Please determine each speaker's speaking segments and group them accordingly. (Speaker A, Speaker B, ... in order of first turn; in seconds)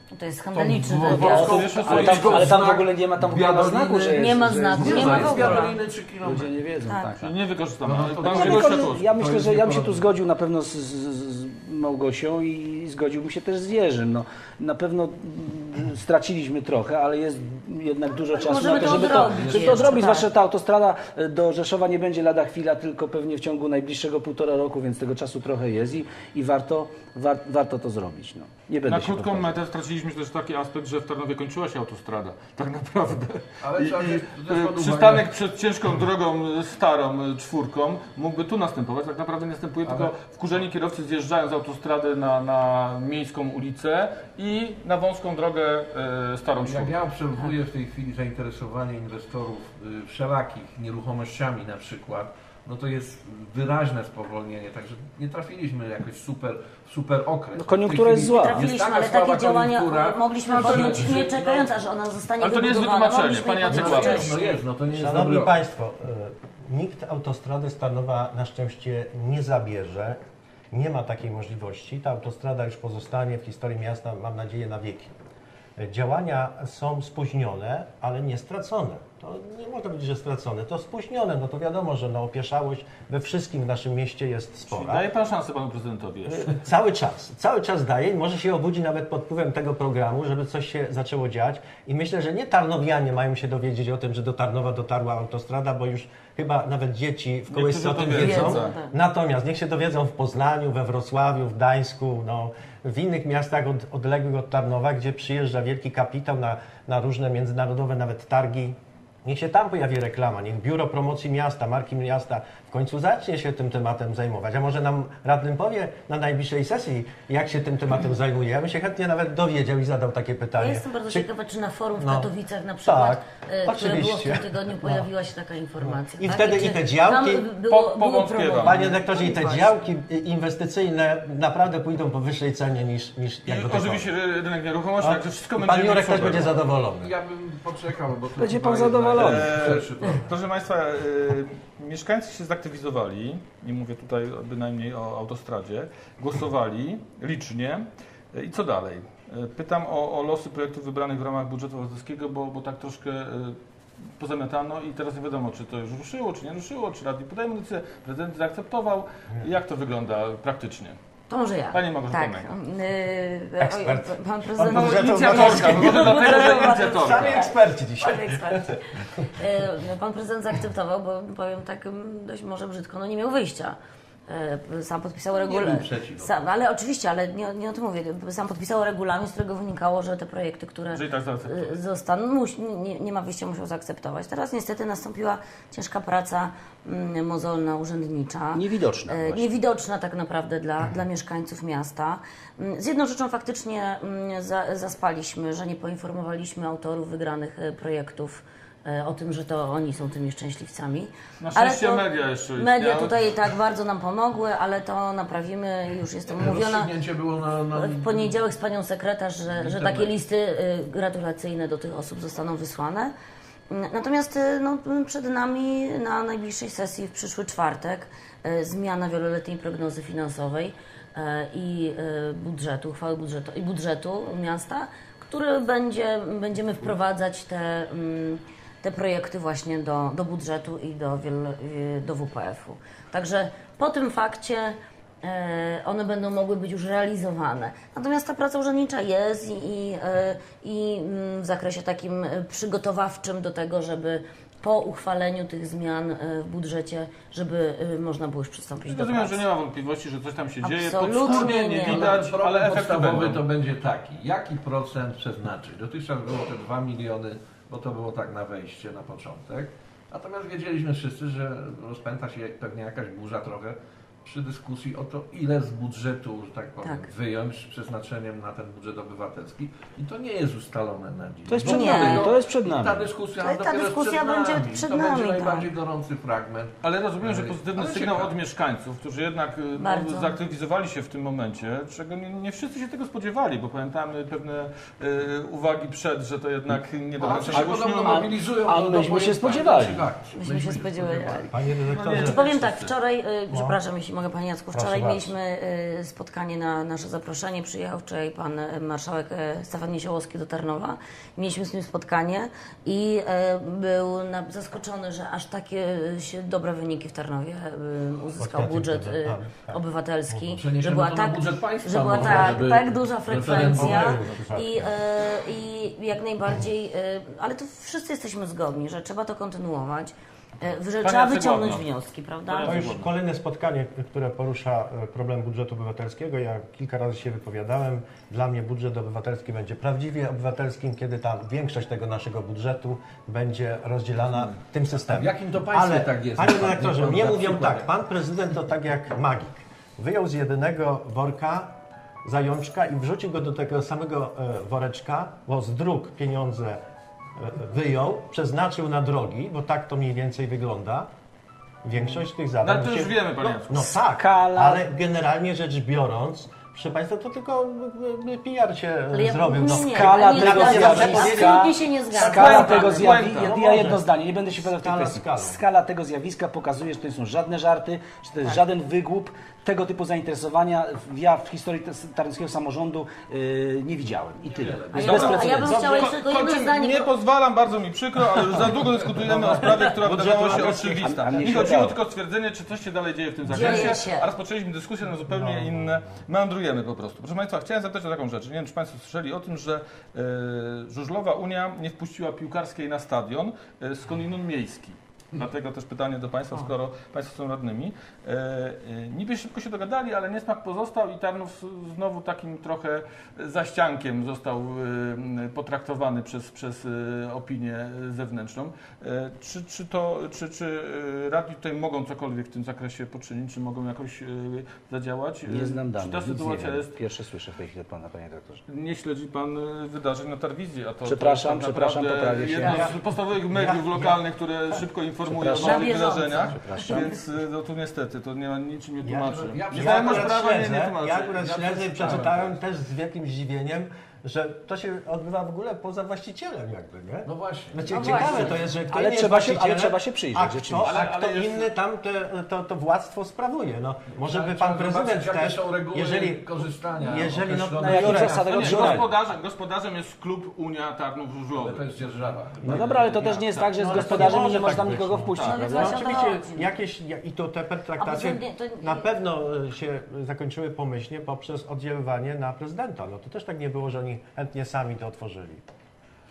Speaker A: 0.1-1.7, 4.1-5.8, 6.9-7.2, 18.3-20.3, 58.4-64.6, 98.1-98.9, 120.6-129.7, 161.3-173.8, 174.3-206.9, 207.7-213.1, 213.7-249.4, 250.6-252.2, 271.6-272.3, 273.4-275.7, 279.8-280.4, 290.3-322.8, 359.1-362.9, 374.9-377.1, 383.5-384.3, 425.6-427.1, 437.9-438.6, 455.4-456.7, 458.0-459.1
Speaker B: 0.5-6.6, 7.8-10.1, 18.8-20.0, 33.6-35.3, 39.8-40.1, 46.6-61.7, 63.6-65.6, 137.0-140.3, 175.4-176.4, 206.3-208.3, 209.5-210.1, 251.2-278.4, 287.2-291.5, 310.5-314.2, 335.1-337.9, 374.4-375.7, 429.4-430.5, 431.4-432.5, 437.2-438.6, 444.1-449.0, 451.6-453.0
Speaker C: 1.1-7.3, 8.2-29.6, 57.6-58.6, 138.4-139.6, 188.5-189.5, 271.5-273.1, 287.5-290.1, 354.1-354.8, 359.7-376.1, 379.3-381.9, 415.5-418.6, 421.0-422.9, 425.3-427.1, 438.9-441.0, 447.8-449.1, 452.6-456.1
Speaker D: 1.1-2.6, 7.2-9.1, 28.9-47.0, 62.4-64.4, 84.7-86.6, 97.5-98.8, 127.7-129.0, 133.4-136.6, 139.2-153.6, 154.2-161.0, 161.7-162.5, 164.7-167.4, 180.9-181.8, 201.4-203.3, 248.8-253.4, 276.8-288.3, 291.9-292.9, 321.0-321.9, 322.5-323.1, 352.6-353.9, 362.2-363.6, 375.0-416.9, 418.7-432.3, 440.9-441.7, 447.9-452.0, 452.6-454.5, 455.4-455.7
Speaker E: 64.9-70.2, 70.7-75.1, 75.8-85.0, 86.3-121.3, 122.0-122.3, 122.8-125.1, 125.8-127.4, 128.6-134.1, 135.0-137.1, 163.6-169.3, 291.5-292.4, 293.5-293.8, 294.7-295.3, 308.4-310.5, 313.4-314.9, 322.6-346.8, 347.4-351.1, 351.8-365.6, 380.0-381.8, 385.3-386.0, 422.5-423.0, 423.5-424.1, 429.0-449.0, 453.7-465.6